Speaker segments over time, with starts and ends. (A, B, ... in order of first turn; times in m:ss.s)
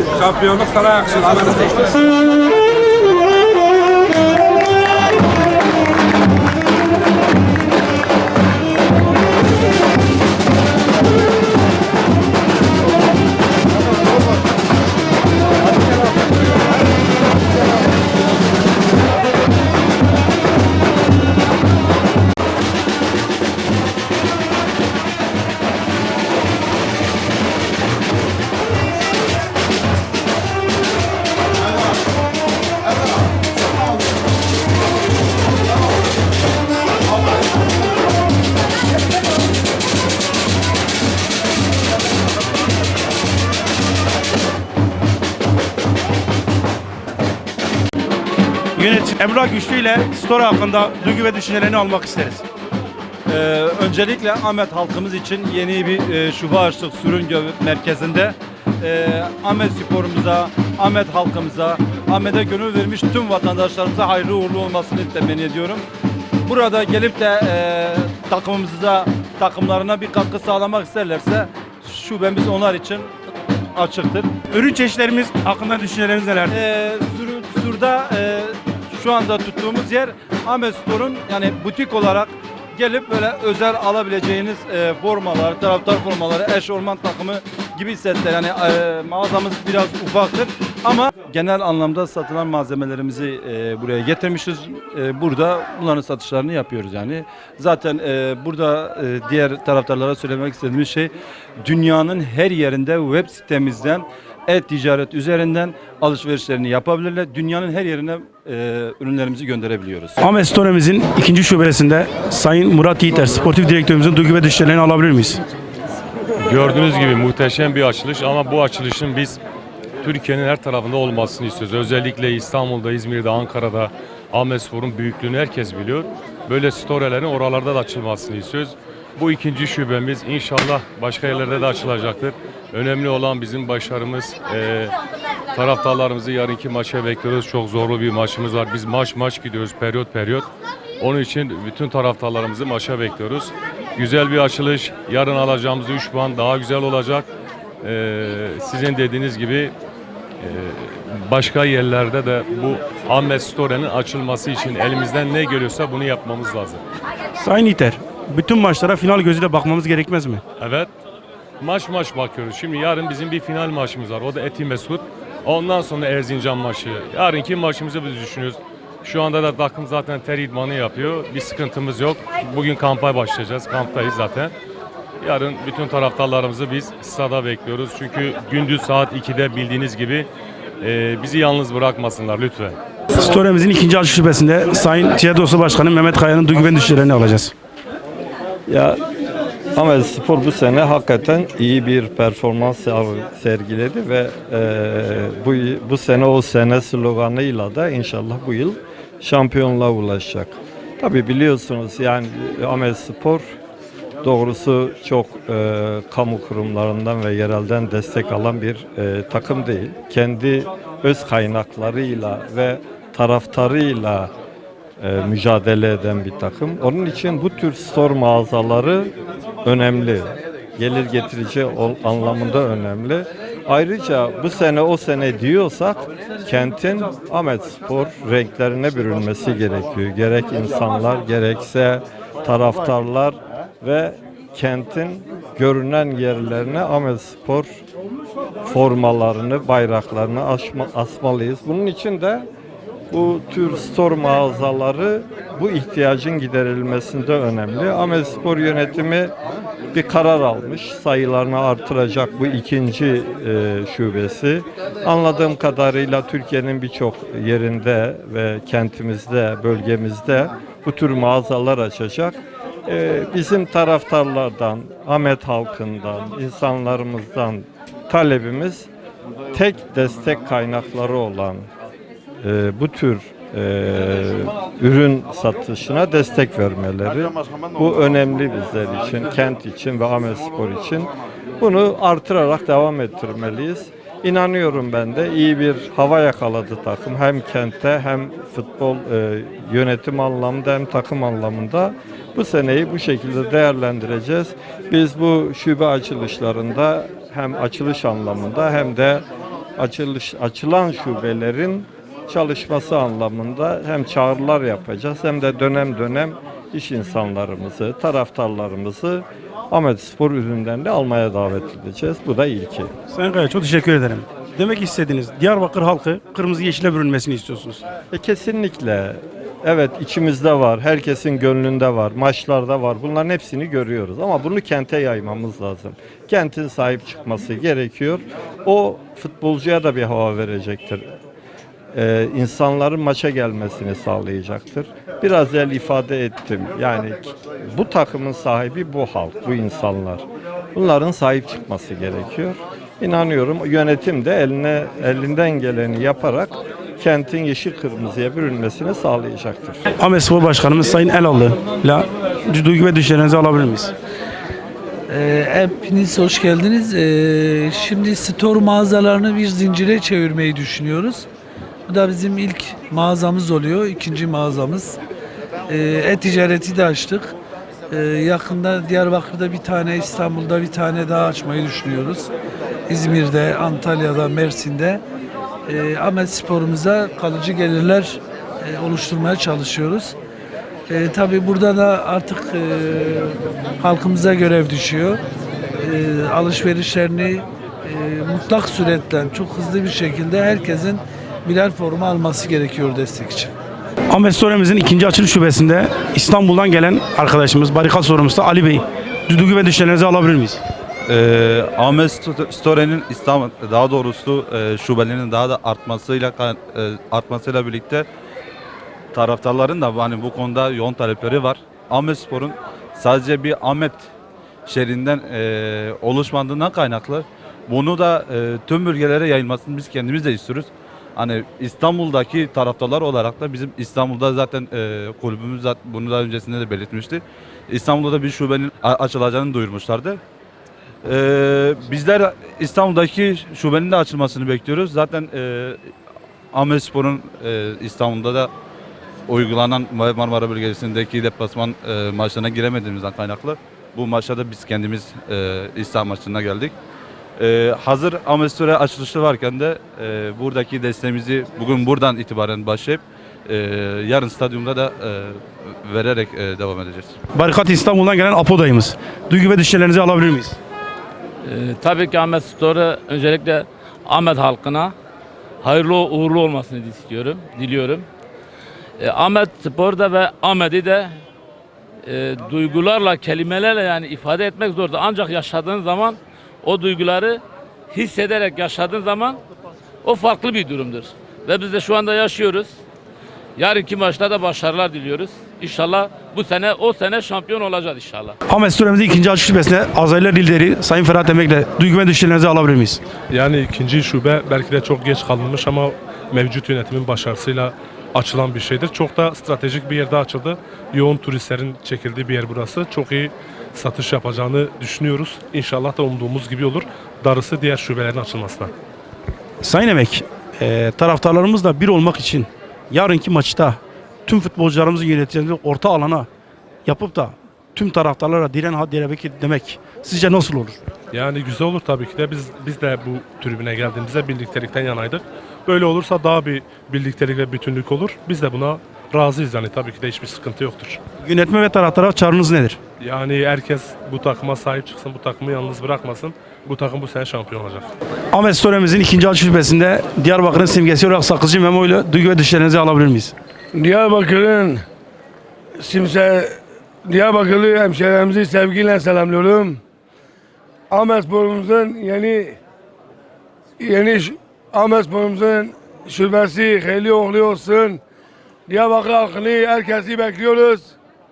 0:48.8-0:52.4 A
0:53.3-1:05.8 B
1:06.4-1:13.2 B
1:13.7-1:14.3 B
1:14.5-1:16.6 A
1:16.5-1:41.1 B
1:41.6-1:50.2 B
1:50.2-1:55.4 A
1:56.4-1:59.4 C
2:00.0-2:14.9 C
2:15.6-2:20.5 C
2:21.0-2:27.3 C
2:27.8-2:29.7 C
2:30.4-2:36.8 C
2:37.4-2:40.4 A
2:40.6-2:40.9 C
2:41.6-2:54.5 C
2:55.2-3:00.3 C
3:00.8-3:02.8 C
3:03.1-3:07.5 A
3:08.7-3:09.0 D
3:09.8-3:23.5 D
3:24.2-3:34.3 D
3:35.0-3:39.1 D
3:39.6-3:57.7 D
3:58.6-4:02.5 D
4:03.1-4:09.3 D
4:09.9-4:28.9 D
4:29.5-4:31.7 D
4:32.4-4:59.2 D
4:59.8-5:12.9 D
5:13.1-5:17.8 A
5:18.1-5:31.1 D
5:31.9-5:49.8 D
5:50.0-5:53.9 A
5:55.1-6:01.3 E
6:01.9-6:05.0 E
6:05.7-6:07.4 E
6:07.9-6:12.3 E
6:12.9-6:15.0 E
6:15.7-6:20.2 E
6:20.9-6:25.2 E
6:25.8-6:33.5 E
6:34.1-6:40.6 A
6:41.1-6:48.1 F
6:49.1-6:54.1 F
6:54.7-7:10.2 F
7:11.0-7:15.8 F
7:16.5-7:18.5 F
7:19.3-7:26.8 F
7:27.4-7:37.1 F
7:37.3-7:40.6 A
7:41.4-7:45.0 G
7:45.6-7:48.1 G
7:49.0-7:51.2 G
7:52.0-7:59.4 G
8:00.0-8:02.8 G
8:03.6-8:08.4 G
8:08.5-8:13.0 A
8:13.3-8:28.7 H
8:29.6-8:36.3 A
8:36.9-8:40.8 A
8:41.1-8:51.0 H
8:51.2-8:52.8 A
8:53.0-8:57.9 H
8:58.3-9:03.3 A
9:03.7-9:04.8 I
9:05.8-9:06.5 I
9:07.1-9:09.8 I
9:10.9-9:12.6 I
9:13.8-9:18.0 I
9:18.7-9:20.9 I